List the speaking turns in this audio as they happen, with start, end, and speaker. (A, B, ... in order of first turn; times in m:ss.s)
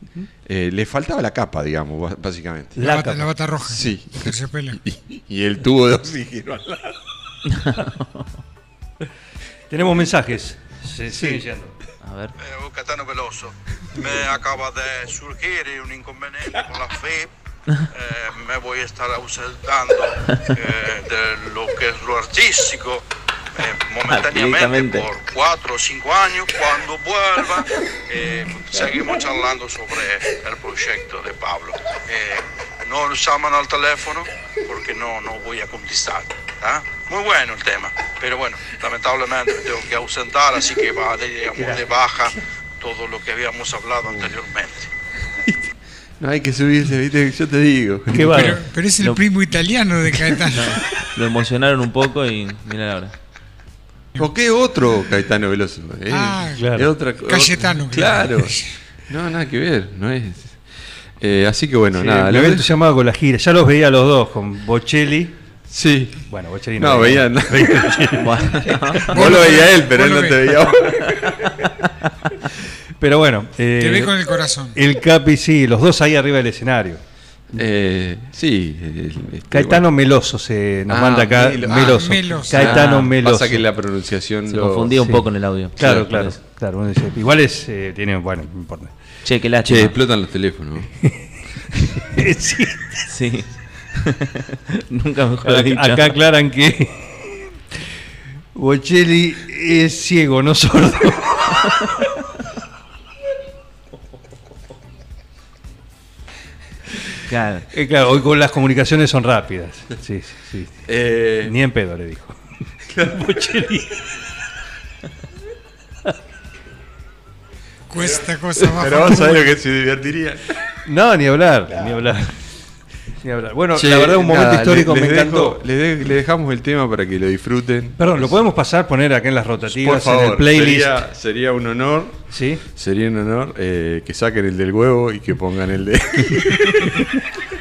0:00.4-0:02.8 A
0:02.8-0:03.3 B
0:02.8-0:04.8 C
0:03.6-0:07.0 A
0:07.5-0:08.1 D
0:09.7-0:11.7 B
0:12.0-0:12.3 D
0:12.4-0:17.3 E
0:17.9-0:44.9 E
0:24.1-0:25.1 D
0:44.1-0:44.4 A
0:45.4-0:48.6 A
0:48.1-0:48.6 B
0:48.3-0:50.8 C
0:49.0-0:49.3 D
0:50.5-0:53.1 D
0:54.2-0:58.6 A
0:56.1-0:56.6 C
0:56.6-0:56.9 B
0:57.2-0:58.7 C
0:59.1-1:00.6 A
1:01.2-1:02.7 A
1:01.9-1:05.4 B
1:05.7-1:08.2 A
1:06.3-1:09.3 B
1:08.2-1:09.2 D
1:09.1-1:10.4 C
1:09.1-1:11.6 A
1:13.0-1:14.2 B
1:13.8-1:14.8 C
1:14.7-1:17.0 B
1:17.5-1:19.9 A
1:19.5-1:23.7 B
1:20.9-1:25.1 A
1:21.7-1:22.6 C
1:22.6-1:23.1 D
1:24.5-1:26.4 D
1:25.8-1:28.9 B
1:29.2-1:30.0 D
1:29.6-1:30.9 A
1:32.0-1:33.0 B
1:33.1-1:36.2 D
1:35.4-1:37.5 B
1:38.6-1:41.7 B
1:47.3-1:47.7 D
1:47.7-1:50.8 B
1:50.9-1:51.6 A
1:51.4-1:52.4 B
1:52.9-1:53.4 A
1:53.0-1:54.0 B
1:57.9-1:59.5 C
1:58.0-2:00.4 A
2:00.8-2:02.3 B
2:03.2-2:05.6 B
2:03.8-2:08.4 A
2:08.0-2:11.0 B
2:09.6-2:12.2 A
2:12.3-2:12.6 B
2:12.8-2:17.0 A